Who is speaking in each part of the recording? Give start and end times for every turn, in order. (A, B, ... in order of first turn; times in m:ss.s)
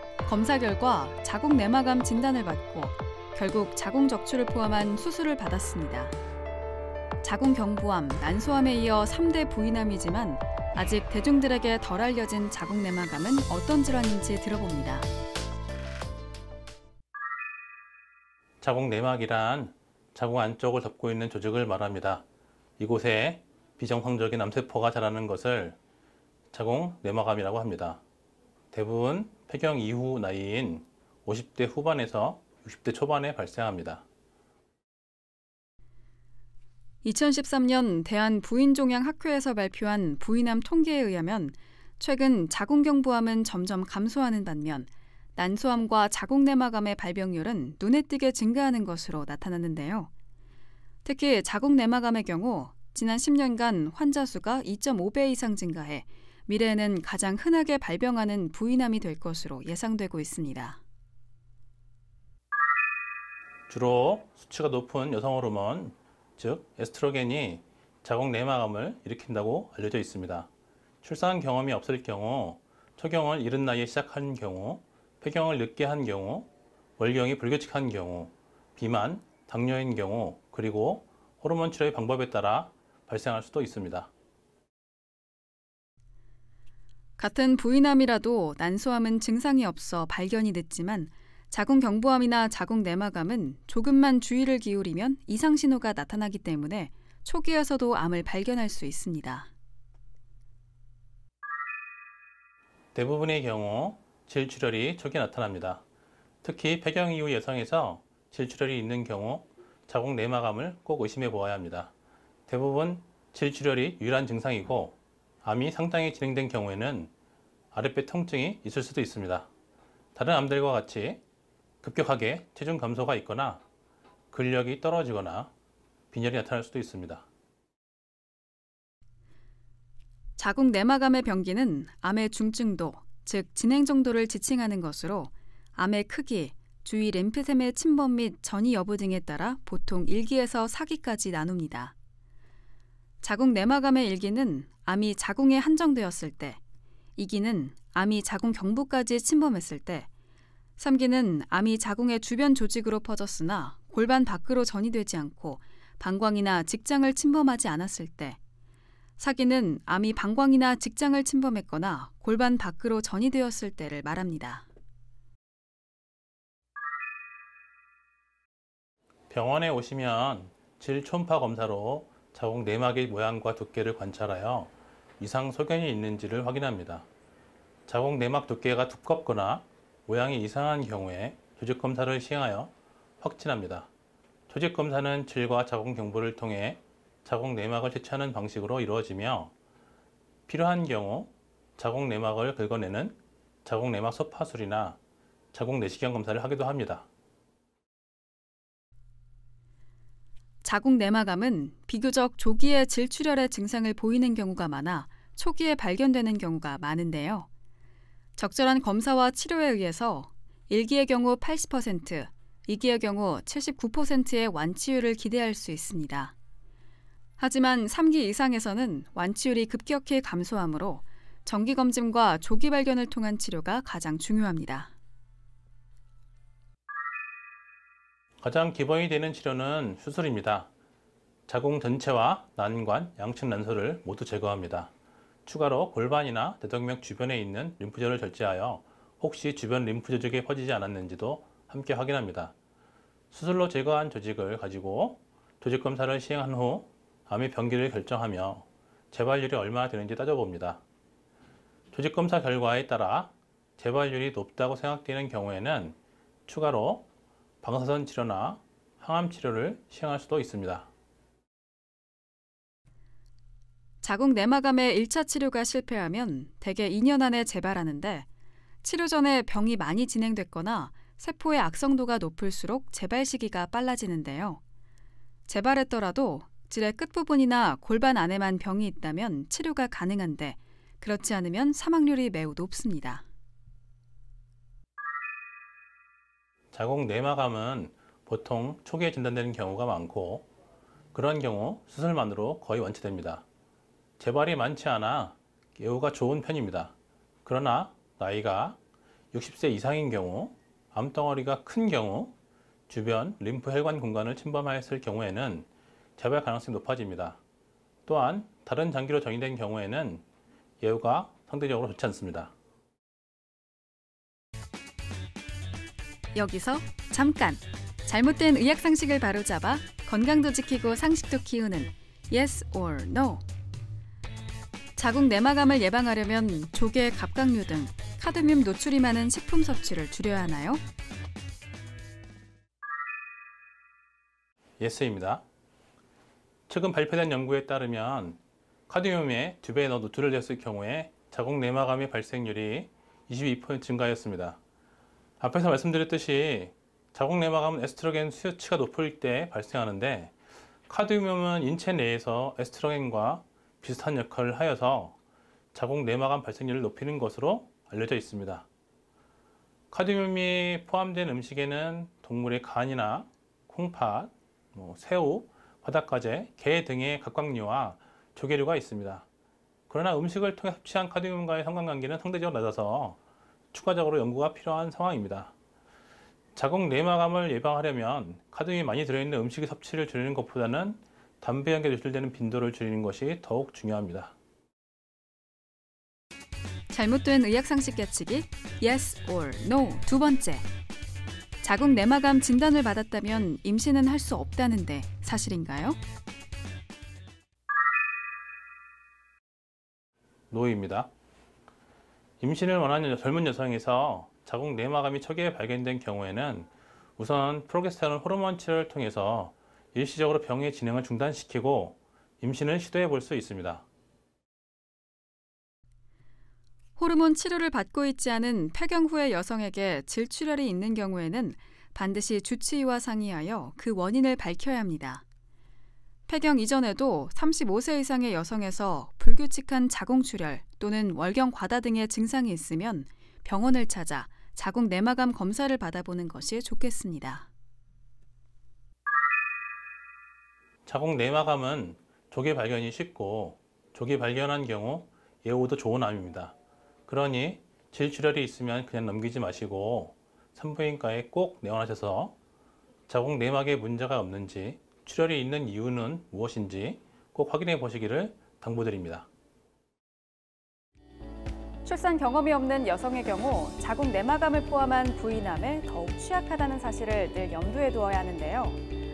0:00.2-0:06.2 A
0:07.2-0:15.1 A
0:18.6-0:22.2 B
0:22.8-0:25.8 B
0:26.5-0:28.0 B
0:28.7-0:34.0 B
0:37.0-0:50.1 A
0:51.0-1:00.8 A
1:03.7-1:10.5 B
1:11.0-1:24.1 B
1:27.2-1:39.5 A
1:42.9-1:45.8 B
1:46.4-1:51.9 B
1:52.5-1:57.1 B
1:57.7-1:59.5 B
2:00.1-2:01.2 B
2:01.8-2:03.6 B
2:04.3-2:05.5 B
2:06.1-2:07.2 B
2:10.4-2:21.9 A
2:23.2-2:26.6 A
2:27.2-2:30.1 A
2:30.8-2:38.4 A
2:39.2-2:44.6 A
2:49.3-2:57.1 B
2:57.9-3:03.9 B
3:04.5-3:09.5 B
3:10.5-3:15.0 B
3:15.5-3:17.0 B
3:20.6-3:27.5 A
3:28.4-3:36.3 A
3:37.4-3:44.9 A
3:48.4-3:50.7 B
3:51.5-3:54.9 B
3:55.4-4:02.5 B
4:03.3-4:10.8 B
4:11.9-4:17.1 B
4:17.6-4:20.9 B
4:24.0-4:28.3 A
4:28.8-4:34.6 A
4:35.5-4:43.2 A
4:46.7-4:50.5 B
4:51.1-4:53.4 B
4:54.2-4:56.9 B
4:57.4-4:58.8 B
4:59.3-5:02.3 B
5:02.9-5:07.4 B
5:08.0-5:10.2 B
5:10.8-5:12.5 B
5:16.3-5:23.4 A
5:25.0-5:30.8 A
5:34.8-5:35.4 B
5:36.7-5:44.6 B
5:45.4-5:50.3 B
5:50.9-5:55.2 B
5:55.7-5:58.6 B
5:59.9-6:09.2 B
6:09.9-6:13.2 B
6:13.7-6:15.5 B
6:16.6-6:24.3 B
6:26.9-6:30.7 A
6:31.6-6:36.0 A
6:40.5-6:41.1 B
6:42.4-6:53.8 B
6:57.0-7:05.2 A
7:06.3-7:17.5 A
7:20.8-7:26.5 B
7:27.1-7:32.3 B
7:33.1-7:39.3 B
7:41.8-7:48.8 A